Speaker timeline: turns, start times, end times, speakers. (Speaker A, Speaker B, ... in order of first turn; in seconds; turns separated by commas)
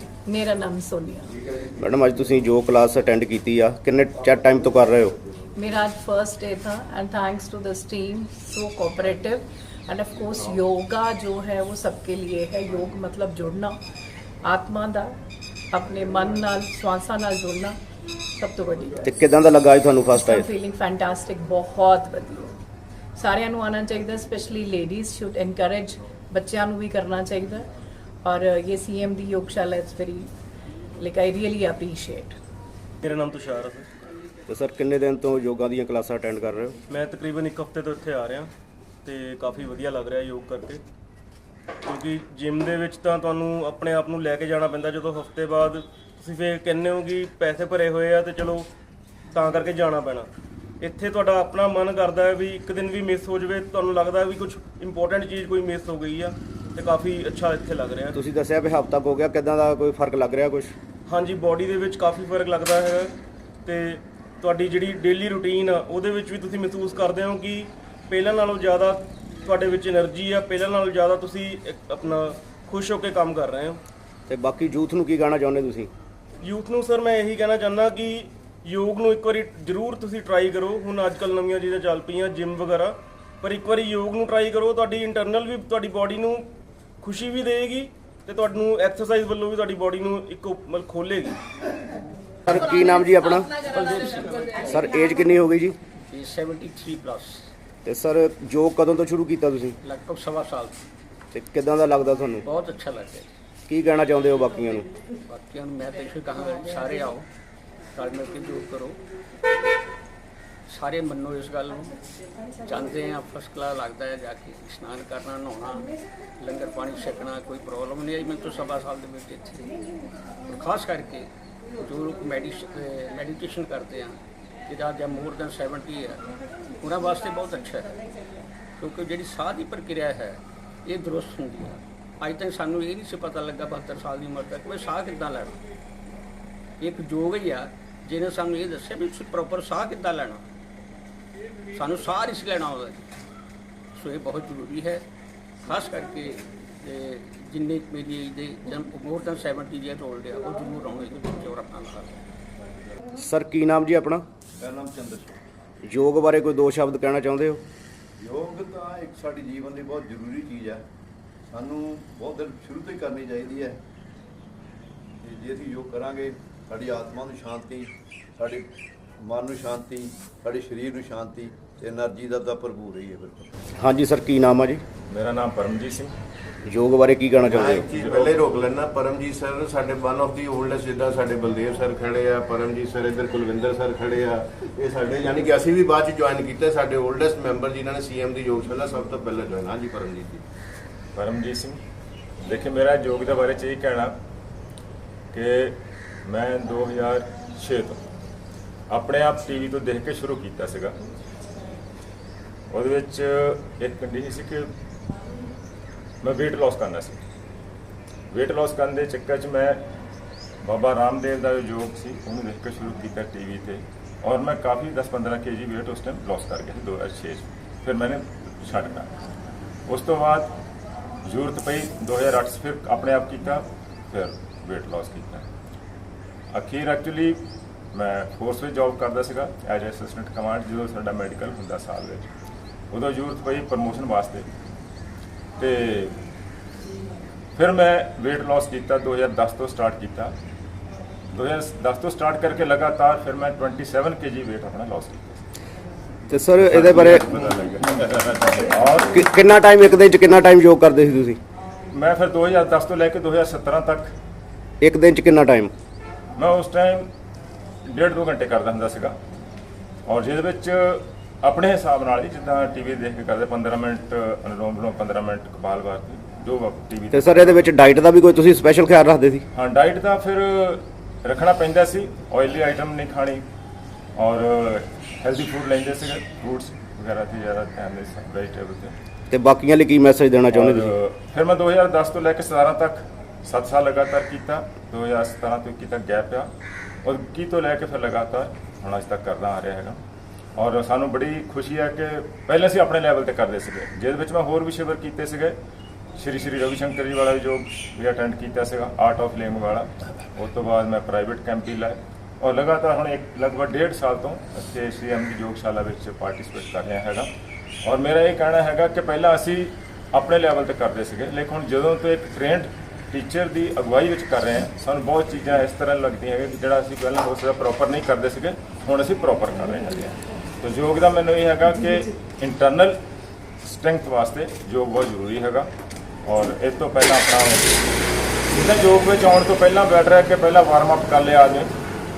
Speaker A: 0.2-1.3, Speaker B: 1.8-5.1, Speaker A: 5.5-13.8, Speaker A: 14.4-15.1, Speaker A: 15.7-17.8, Speaker A: 18.4-19.0, Speaker B: 19.0-20.4, Speaker A: 20.1-22.5, Speaker A: 23.1-27.7, Speaker A: 28.2-30.3, Speaker A: 31.0-32.4, Speaker C: 33.0-33.9, Speaker B: 34.5-36.8, Speaker C: 36.9-38.5, Speaker C: 39.0-40.8, Speaker C: 41.8-48.7, Speaker C: 49.3-50.3, Speaker C: 50.8-58.1, Speaker B: 58.1-60.7, Speaker C: 61.1-63.1, Speaker C: 63.6-73.8, Speaker B: 74.3-75.9, Speaker C: 76.4-86.5, Speaker C: 87.0-91.4, Speaker B: 92.5-93.5, Speaker D: 93.7-94.6, Speaker B: 94.6-95.8, Speaker D: 96.1-97.4, Speaker B: 97.8-99.8, Speaker D: 99.8-100.8, Speaker B: 101.3-102.5, Speaker D: 102.4-103.3, Speaker B: 103.7-104.9, Speaker D: 105.3-107.2, Speaker D: 107.9-109.0, Speaker D: 110.7-111.9, Speaker D: 112.6-115.9, Speaker D: 116.4-119.7, Speaker D: 120.5-121.3, Speaker D: 121.8-126.2, Speaker D: 126.8-127.9, Speaker D: 128.8-135.6, Speaker D: 136.8-140.4, Speaker D: 141.7-143.0, Speaker D: 144.0-145.0, Speaker D: 145.6-152.2, Speaker B: 153.2-154.2, Speaker E: 154.6-155.4, Speaker B: 155.8-157.6, Speaker E: 158.2-160.8, Speaker E: 161.5-163.8, Speaker E: 165.2-168.7, Speaker E: 169.2-173.5, Speaker B: 173.8-174.8, Speaker F: 175.1-176.1, Speaker B: 176.7-177.8, Speaker G: 177.5-190.4, Speaker F: 177.9-178.3, Speaker F: 191.1-191.8, Speaker F: 192.4-194.1, Speaker F: 195.3-198.0, Speaker F: 198.9-200.9, Speaker F: 202.7-204.7, Speaker F: 206.2-207.2, Speaker F: 208.3-209.8, Speaker F: 210.6-219.1, Speaker F: 219.9-220.5, Speaker F: 221.2-225.4, Speaker F: 226.5-227.4, Speaker F: 227.9-232.3, Speaker F: 232.9-234.5, Speaker F: 235.6-236.2, Speaker F: 237.6-240.3, Speaker F: 241.3-245.4, Speaker B: 246.3-247.2, Speaker F: 246.6-249.2, Speaker B: 249.1-251.4, Speaker F: 251.9-254.1, Speaker B: 254.8-255.7, Speaker F: 256.4-257.1, Speaker F: 257.9-259.1, Speaker F: 260.1-267.7, Speaker B: 267.1-269.4, Speaker F: 269.5-273.4, Speaker F: 274.1-278.9, Speaker B: 279.3-280.9, Speaker F: 280.5-286.5, Speaker F: 287.0-290.0, Speaker F: 290.6-295.5, Speaker F: 296.1-307.3, Speaker F: 307.8-323.0, Speaker F: 323.6-325.7, Speaker F: 326.2-327.7, Speaker F: 328.5-331.7